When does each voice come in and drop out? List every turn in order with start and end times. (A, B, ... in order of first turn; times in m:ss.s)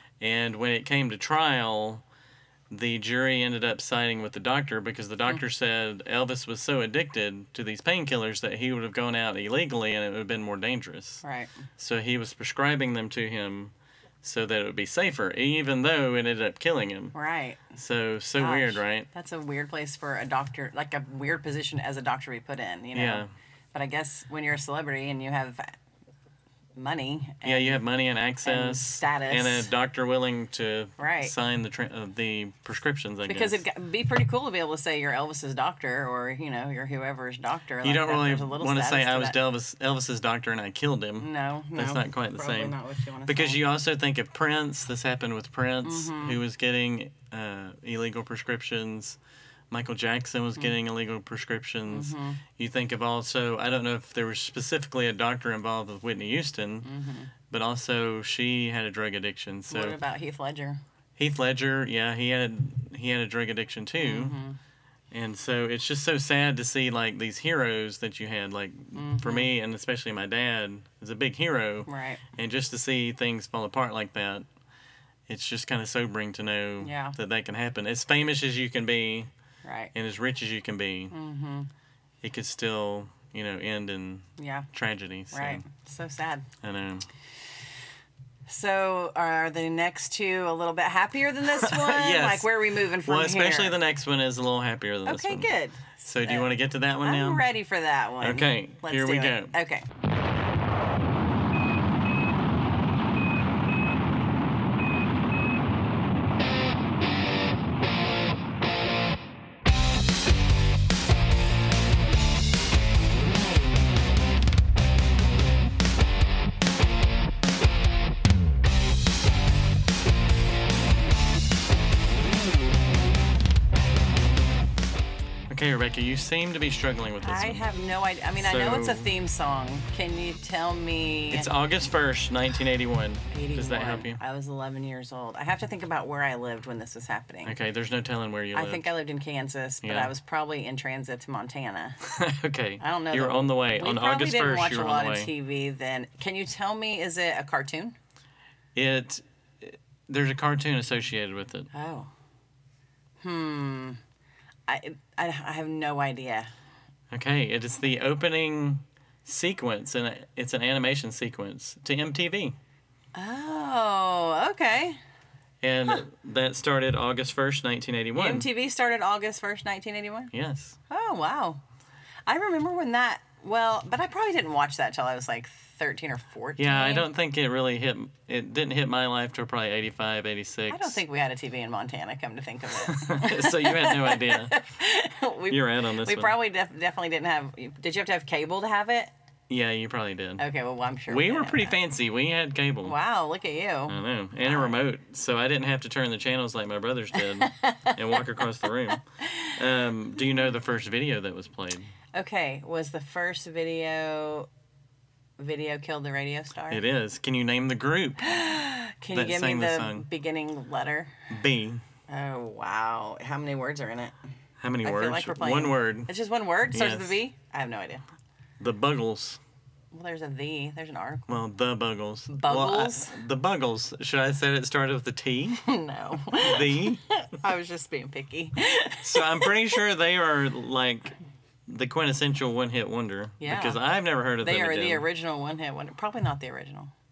0:00.2-0:02.0 A
0:02.7-0:11.2 A
0:11.2-0:11.6 B
0:11.8-0:17.1 A
0:17.1-0:17.8 B
0:17.7-0:19.1 A
0:18.4-0:25.8 B
0:22.9-0:23.3 A
0:26.8-0:27.8 B
0:27.4-0:33.6 A
0:28.4-0:29.7 B
0:31.0-0:31.3 B
0:33.2-0:39.4 B
0:37.8-0:49.2 A
0:41.2-0:43.6 B
0:45.8-0:46.4 B
0:49.7-0:56.9 A
0:51.9-0:52.4 B
0:56.8-0:57.3 B
0:57.5-1:00.0 A
0:59.7-1:00.8 B
1:01.2-1:04.4 A
1:04.0-1:04.6 B
1:05.1-1:14.4 A
1:08.9-1:09.5 B
1:11.9-1:12.2 B
1:15.3-1:19.3 A
1:16.8-1:17.2 B
1:19.6-1:19.9 B
1:19.9-1:21.1 A
1:21.1-1:21.7 B
1:22.2-1:25.6 A
1:24.4-1:24.7 B
1:25.3-1:26.4 B
1:26.6-1:27.1 A
1:28.5-1:33.8 B
1:31.5-1:37.4 A
1:35.0-1:39.8 B
1:38.2-1:39.5 A
2:05.5-2:07.6 A
2:07.2-2:11.5 B
2:08.4-2:09.1 A
2:11.3-2:14.2 A
2:13.3-2:17.5 B
2:17.4-2:18.8 A
2:18.5-2:22.0 B
2:19.8-2:20.1 A
2:22.0-2:25.3 A
2:22.8-2:27.9 B
2:28.7-2:31.7 A
2:31.7-2:32.1 B
2:33.2-2:34.0 B
2:34.7-2:36.5 B
2:37.1-2:42.6 A
2:43.1-2:45.0 B
2:45.6-2:48.5 A
2:48.1-2:50.3 B
2:50.3-2:50.8 A
2:50.9-2:51.6 B
2:52.3-2:57.1 B
2:56.6-3:01.0 A
3:00.7-3:09.1 B
3:02.8-3:04.6 A
3:05.5-3:06.3 A
3:09.5-3:10.4 A
3:10.4-3:11.8 B
3:11.1-3:13.0 A
3:12.8-3:14.8 B
3:13.9-3:21.9 A
3:17.3-3:18.2 B
3:18.9-3:19.6 B
3:22.1-3:24.5 B
3:25.4-3:26.8 B
3:26.7-3:28.3 A
3:28.2-3:31.2 B
3:29.1-3:30.0 A
3:31.3-3:31.8 A
3:32.1-3:34.1 B
3:34.6-3:36.1 A
3:34.8-3:38.0 B
3:36.7-3:37.2 A
3:38.6-3:39.4 A
3:39.9-3:41.3 B
3:41.3-3:45.6 A
3:42.3-3:43.2 B
3:45.6-3:49.6 B
3:46.2-3:47.0 A
3:49.0-3:51.1 A
3:51.7-3:55.0 A
3:53.4-3:53.8 B
3:54.4-3:56.9 B